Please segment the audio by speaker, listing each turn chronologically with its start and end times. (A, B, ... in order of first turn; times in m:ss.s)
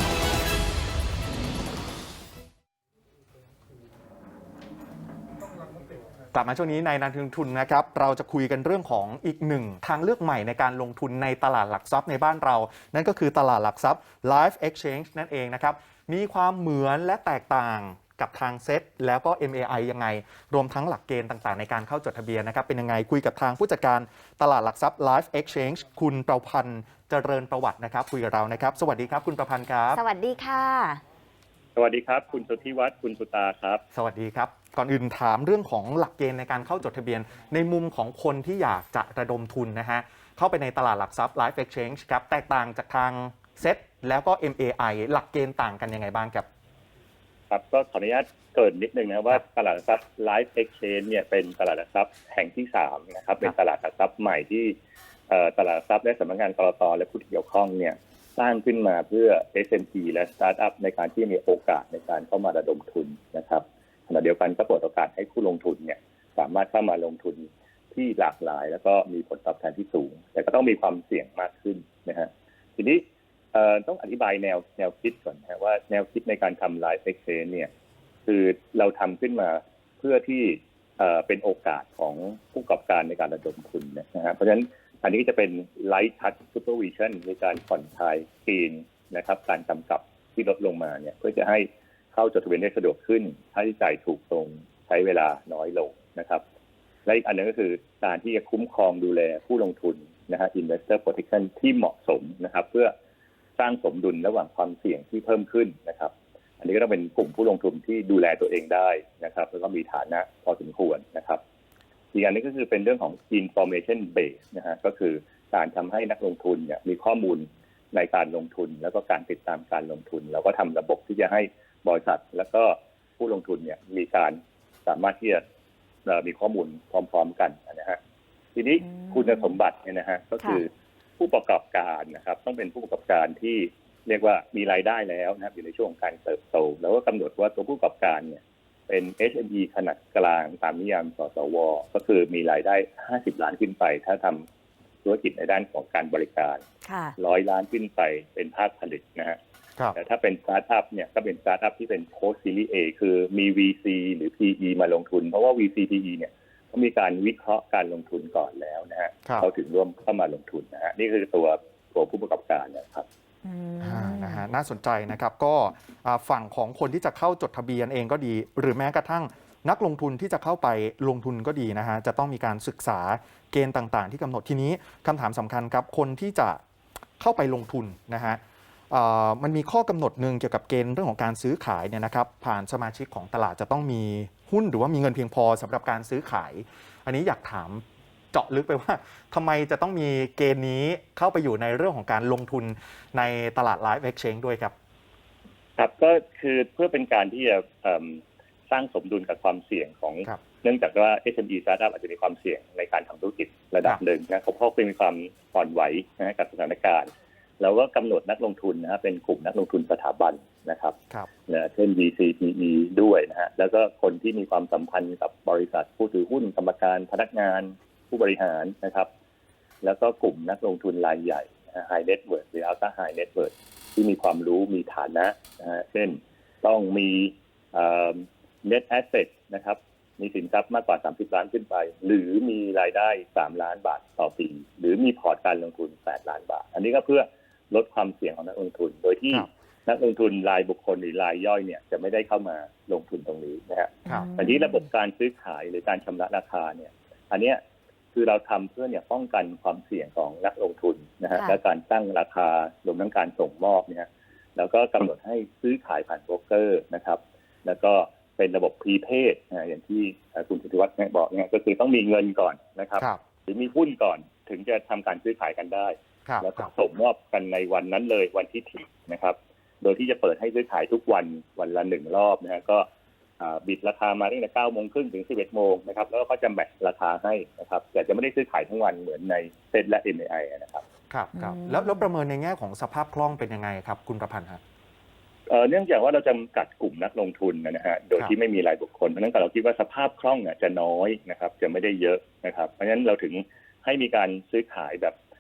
0:06.3-0:30.0 A
0:29.9-0:31.0 B
0:31.8-0:33.8 C
0:33.9-0:46.5 A
0:47.5-0:54.8 C
0:55.3-1:17.7 C
1:18.3-1:36.4 C
1:37.1-1:42.9 C
1:43.6-1:51.4 C
1:52.1-2:05.4 C
2:06.0-2:08.0 C
2:08.6-2:24.5 C
2:08.8-2:09.6 B
2:25.0-2:26.6 C
2:26.8-2:27.2 B
2:27.2-2:29.4 C
2:30.0-2:43.1 C
2:43.4-2:44.5 B
2:43.8-2:56.6 A
2:57.2-2:58.4 A
2:58.9-3:14.7 A
3:15.8-3:31.0 C
3:31.5-3:39.1 C
3:39.8-4:07.6 C
4:04.1-4:04.8 B
4:08.1-4:32.9 C
4:26.3-4:26.7 A
4:33.4-4:40.8 C
4:41.1-4:44.6 A
4:41.4-4:42.1 B
4:45.5-4:55.2 C